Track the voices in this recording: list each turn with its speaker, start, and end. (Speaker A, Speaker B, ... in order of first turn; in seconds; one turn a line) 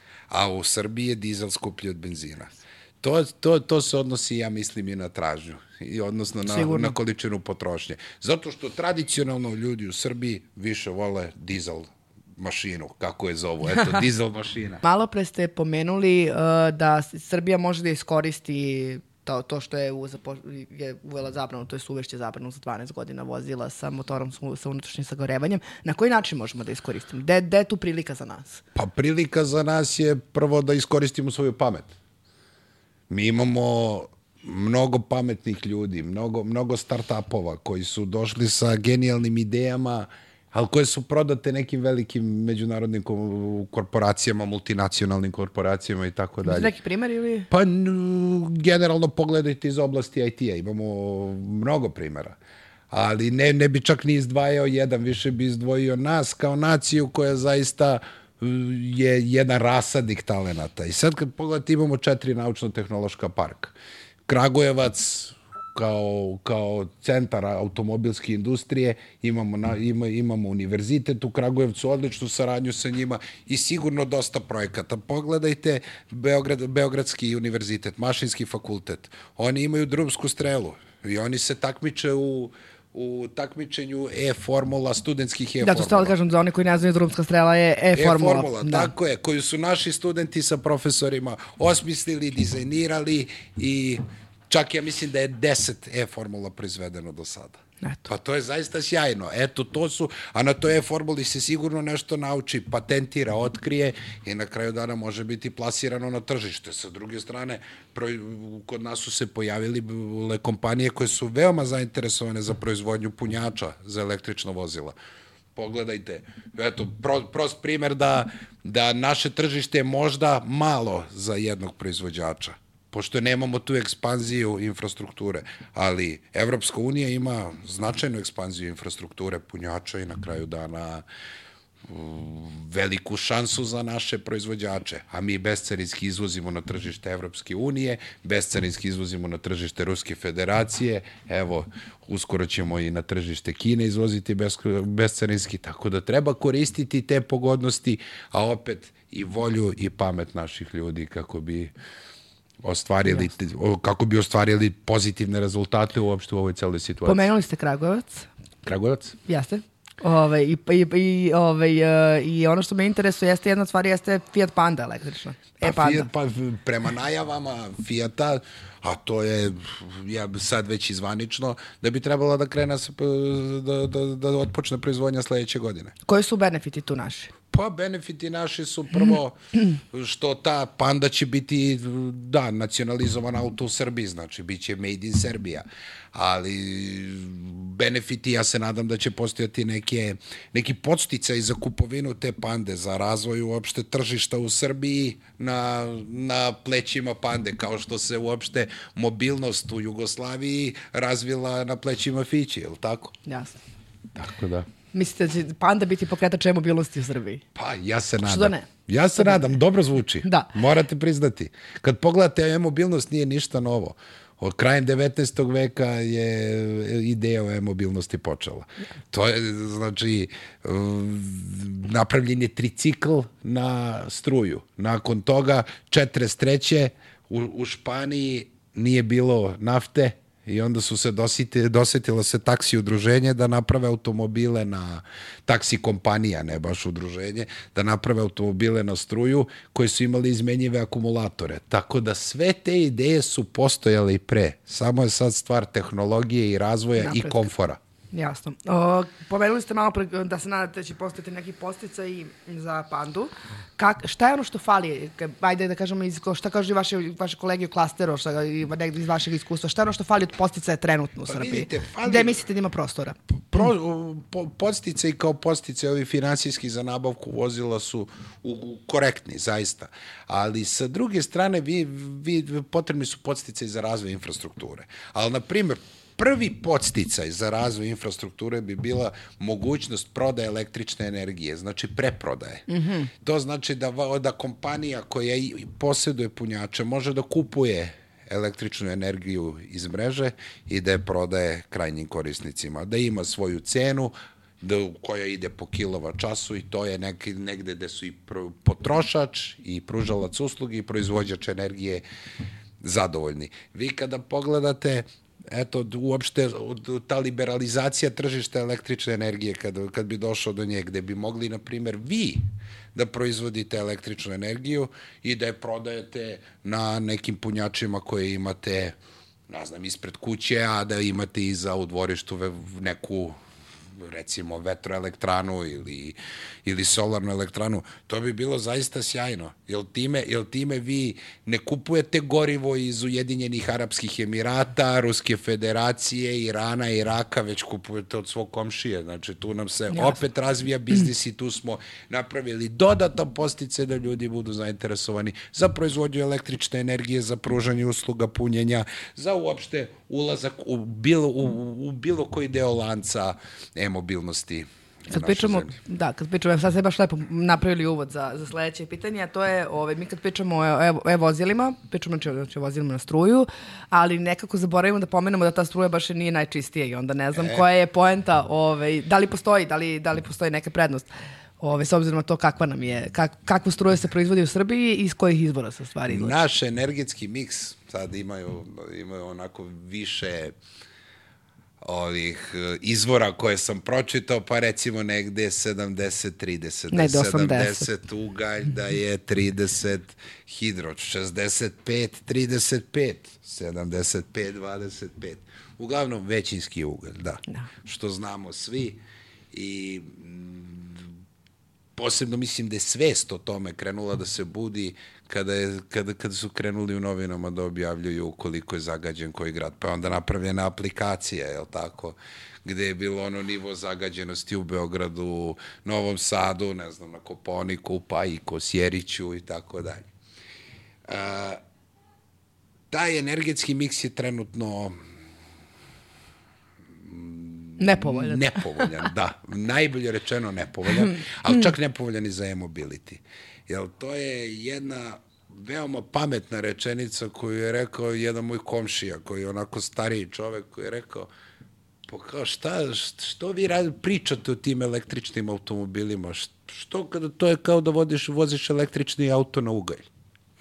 Speaker A: 0.3-14.8
Speaker B: 6.5-7.0
Speaker B: 14.8-28.6
Speaker A: 28.8-31.9
Speaker A: 33.1-46.7
Speaker B: 46.4-47.5
Speaker A: 47.5-52.4
Speaker A: 52.9-63.8
Speaker A: 64.3-86.1
Speaker B: 85.6-88.9
Speaker A: 88.0-115.0
Speaker A: 115.5-131.0
Speaker A: 131.9-151.7
Speaker A: 152.6-157.3
Speaker B: 153.1-153.3
Speaker B: 157.1-158.3
Speaker A: 158.7-159.2
Speaker B: 159.2-166.1
Speaker A: 165.6-175.9
Speaker B: 176.1-177.3
Speaker A: 177.5-203.2
Speaker B: 203.2-203.6
Speaker A: 204.2-204.7
Speaker B: 204.9-207.4
Speaker A: 207.6-247.8
Speaker B: 208.2-209.5
Speaker B: 210.2-210.5
Speaker B: 247.0-247.5
Speaker B: 248.1-263.2
Speaker A: 261.3-262.4
Speaker A: 263.5-282.6
Speaker B: 282.7-283.1
Speaker A: 283.2-302.0
Speaker A: 302.8-312.4
Speaker A: 312.9-319.0
Speaker A: 319.5-323.4
Speaker A: 324.0-355.8
Speaker B: 339.9-340.2
Speaker B: 355.1-371.1
Speaker A: 367.4-367.6
Speaker B: 371.6-376.4
Speaker A: 376.1-380.6
Speaker A: 381.8-399.0
Speaker B: 386.9-387.9
Speaker A: 399.5-401.1
Speaker A: 402.0-420.1
Speaker A: 421.1-421.6
Speaker A: 422.9-425.0
Speaker A: 427.0-441.3
Speaker B: 427.8-428.9
Speaker A: 442.1-450.1